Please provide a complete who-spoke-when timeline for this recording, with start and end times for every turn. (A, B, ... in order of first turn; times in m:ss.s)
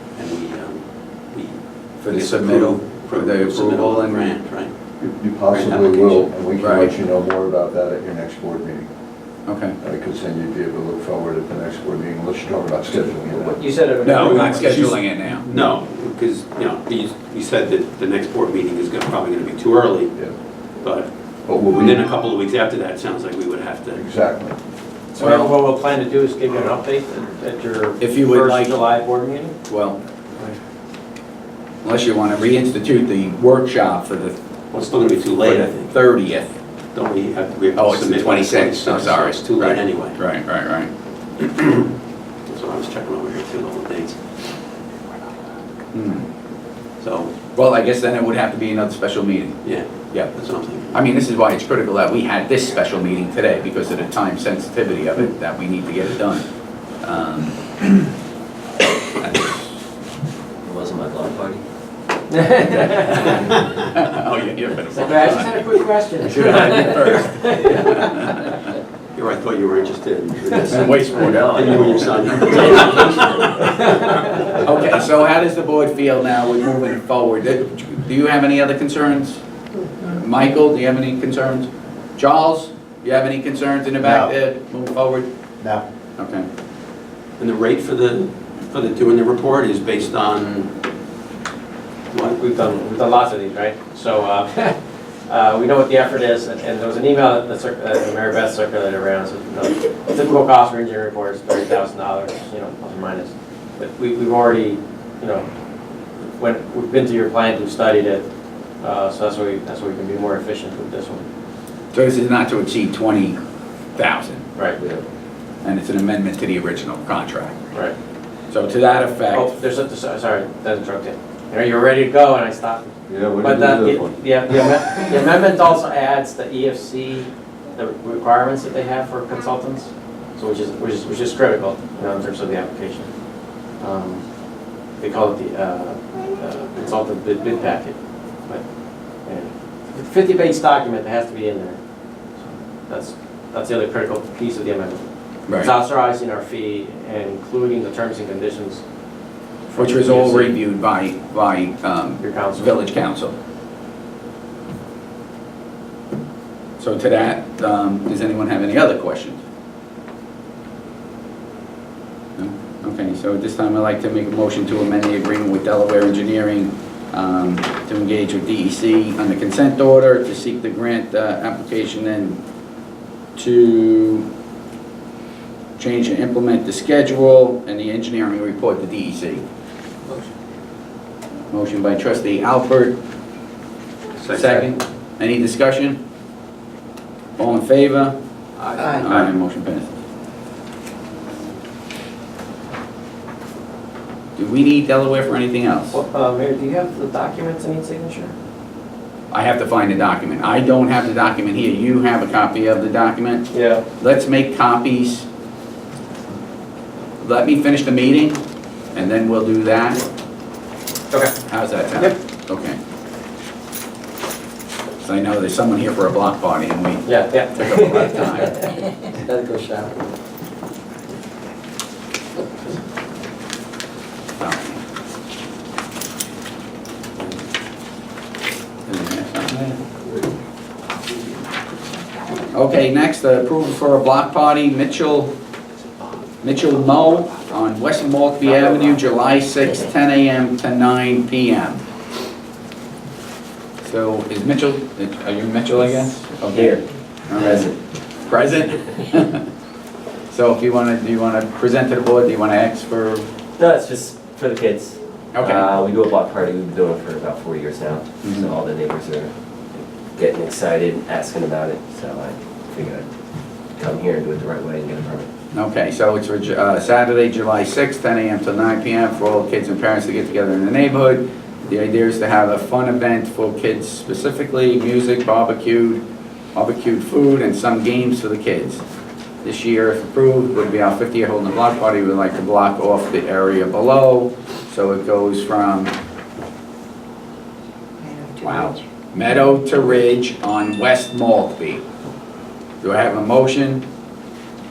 0:00.2-0:04.7 A
0:02.0-0:04.4 B
0:05.0-0:08.9 C
0:05.5-0:06.3 A
0:06.6-0:06.9 B
0:09.5-0:09.8 B
0:09.8-0:13.6 C
0:13.5-0:14.8 D
0:14.0-0:15.4 B
0:14.1-0:20.1 A
0:20.8-0:24.0 A
0:21.5-0:22.0 C
0:24.0-0:24.6 C
0:25.1-0:29.6 D
0:25.2-0:25.5 B
0:28.0-0:28.8 B
0:29.7-0:30.0 B
0:31.8-0:34.4 B
0:34.7-0:35.9 A
0:35.4-0:36.5 B
0:36.9-0:40.2 A
0:37.8-0:40.9 B
0:41.4-0:41.9 A
0:42.5-0:44.2 A
0:45.9-0:46.3 B
0:47.0-0:47.3 A
0:47.6-0:50.3 B
0:49.6-0:51.0 A
0:50.9-0:58.1 B
0:59.2-0:59.6 B
1:00.6-1:01.6 E
1:02.3-1:03.5 D
1:03.8-1:05.6 B
1:04.9-1:08.4 D
1:06.2-1:08.6 B
1:09.1-1:14.4 A
1:10.6-1:12.6 E
1:10.7-1:13.0 B
1:14.1-1:14.4 D
1:14.6-1:19.4 B
1:20.0-1:25.3 B
1:24.0-1:24.3 C
1:26.2-1:26.5 B
1:27.4-1:30.7 A
1:32.1-1:32.4 A
1:32.4-1:45.5 D
1:46.2-1:48.3 D
1:48.8-1:51.3 D
1:51.9-1:53.4 B
1:54.0-1:54.5 B
1:54.8-1:55.0 E
1:55.6-1:57.7 B
1:58.5-1:59.5 B
1:59.3-2:14.2 D
2:03.1-2:04.2 C
2:15.0-2:21.8 D
2:22.4-2:28.8 D
2:29.7-2:30.6 D
2:29.8-2:33.4 B
2:32.2-2:32.8 D
2:36.8-2:39.4 B
2:42.4-2:52.4 B
2:53.4-2:54.3 B
2:55.8-2:59.4 B
3:01.5-3:03.0 B
3:04.2-3:04.7 A
3:04.3-3:06.0 B
3:07.4-3:08.2 B
3:08.6-3:09.1 D
3:08.8-3:09.9 B
3:14.4-3:16.0 B
3:15.9-3:18.3 D
3:19.3-3:23.5 B
3:23.5-3:23.8 D
3:24.0-3:25.3 B
3:27.2-3:28.4 B
3:28.9-3:30.0 B
3:31.1-3:32.2 D
3:31.5-3:32.8 B
3:35.0-3:38.6 B
3:37.0-3:38.7 D
3:39.2-3:39.9 D
3:44.4-3:44.8 B
3:48.9-3:49.8 B
3:52.5-3:55.3 B
3:56.4-4:01.8 B
4:03.8-4:09.5 B
4:06.5-4:07.8 E
4:10.3-4:13.3 B
4:13.6-4:23.1 E
4:15.3-4:15.8 B
4:18.2-4:18.5 B
4:23.8-4:25.3 E
4:25.5-4:36.0 B
4:36.6-4:38.8 B
4:39.4-4:45.9 B
4:48.0-4:48.8 D
4:48.4-4:51.8 B
4:52.8-4:53.9 B